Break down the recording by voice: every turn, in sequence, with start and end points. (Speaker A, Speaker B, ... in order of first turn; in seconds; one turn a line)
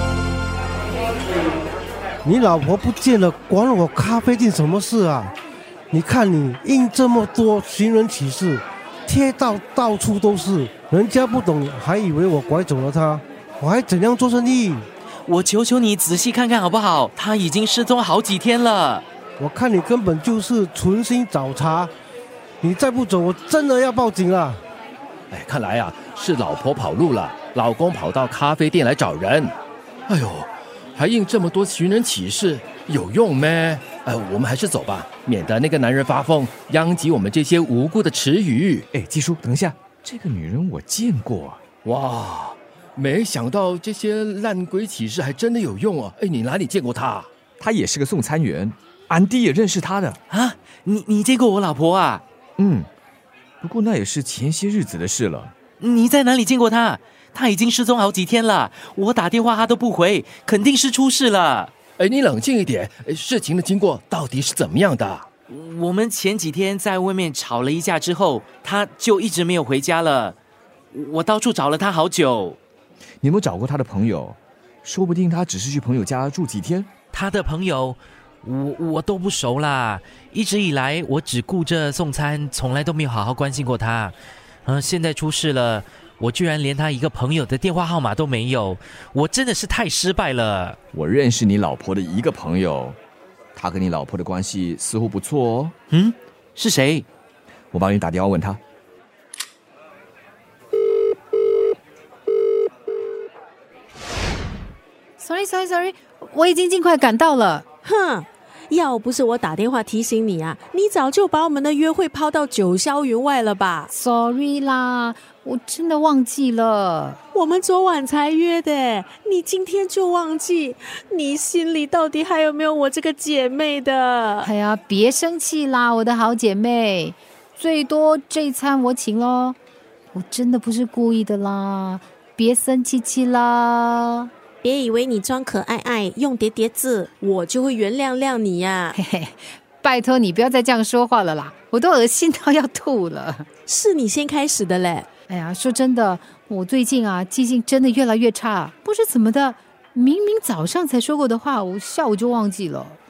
Speaker A: 2.2-5.3
Speaker A: 5.9-14.9
Speaker B: 15.3-19.1
Speaker A: 19.4-21.9
Speaker A: 22.6-24.6
Speaker C: 25.3-29.6
Speaker C: 30.1-38.9
Speaker D: 38.9-41.6
Speaker C: 41.8-47.3
Speaker D: 47.6-50.2
Speaker B: 50.3-52.2
Speaker D: 52.6-52.9
Speaker D: 53.6-55.5
Speaker B: 55.8-61.7
Speaker C: 62.0-65.3
Speaker B: 65.5-70.4
Speaker B: 70.9-72.6
Speaker D: 73.2-76.9
Speaker B: 77.1-84.2
Speaker B: 84.7-90.8
Speaker D: 90.9-93.0
Speaker D: 93.6-95.7
Speaker B: 95.9-97.1
Speaker D: 97.7-98.6
Speaker E: 105.2-107.7
Speaker F: 107.8-113.9
Speaker E: 113.9-117.2
Speaker F: 117.3-124.5
Speaker E: 124.4-129.6
Speaker E: 130.1-134.3
Speaker F: 134.6-139.0
Speaker E: 138.9-143.5
Speaker F: 143.7-145.1
Speaker E: 145.3-153.0